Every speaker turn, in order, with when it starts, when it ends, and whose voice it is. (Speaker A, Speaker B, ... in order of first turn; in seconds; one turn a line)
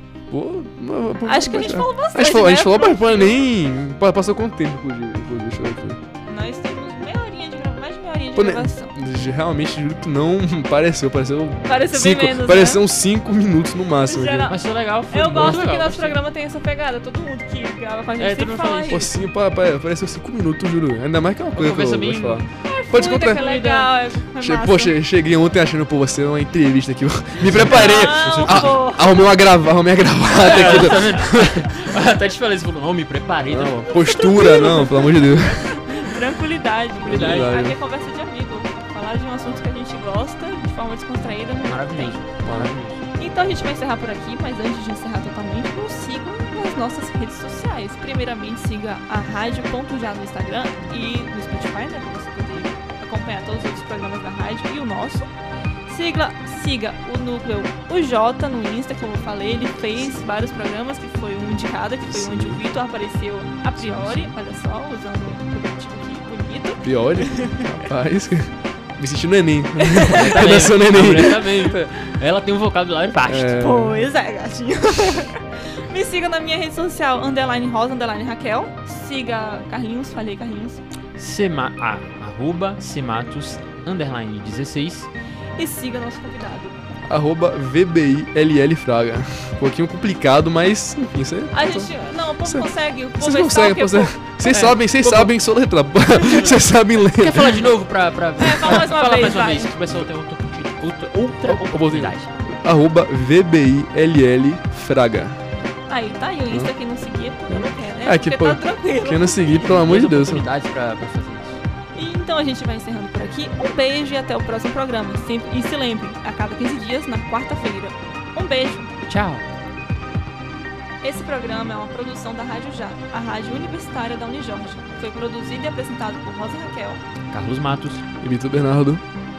Speaker A: 0.3-6.0
Speaker B: 1.2-3.4
Speaker B: 6.3-8.9
Speaker A: 8.4-14.5
Speaker B: 11.7-12.8
Speaker B: 14.1-14.6
Speaker C: 14.5-16.2
Speaker B: 15.1-19.1
Speaker C: 18.2-19.1
Speaker A: 18.9-23.4
Speaker C: 21.6-22.5
Speaker B: 22.6-24.9
Speaker C: 23.3-23.9
Speaker A: 24.4-31.7
Speaker C: 27.4-28.9
Speaker B: 27.6-29.2
Speaker C: 30.3-33.9
Speaker B: 30.5-30.9
Speaker A: 33.5-36.0
Speaker B: 33.9-42.2
Speaker C: 37.0-37.6
Speaker A: 37.0-37.8
Speaker C: 41.6-43.0
Speaker A: 42.4-42.8
Speaker B: 43.2-55.3
Speaker B: 55.9-67.8
Speaker A: 62.1-62.6
Speaker C: 63.8-64.3
Speaker A: 66.8-71.7
Speaker B: 69.8-70.5
Speaker C: 70.1-73.6
Speaker A: 73.2-74.0
Speaker B: 73.5-80.8
Speaker C: 81.2-85.1
Speaker B: 85.6-86.8
Speaker A: 87.1-91.9
Speaker B: 91.5-94.1
Speaker A: 93.2-97.6
Speaker C: 94.4-95.3
Speaker B: 96.2-96.5
Speaker C: 96.3-102.3
Speaker B: 98.4-99.7
Speaker A: 101.5-105.4
Speaker B: 105.9-109.8
Speaker A: 107.5-110.5
Speaker C: 109.6-111.6
Speaker B: 112.0-118.9
Speaker C: 119.1-119.5
Speaker B: 121.0-127.0
Speaker C: 127.3-128.0
Speaker A: 128.2-129.0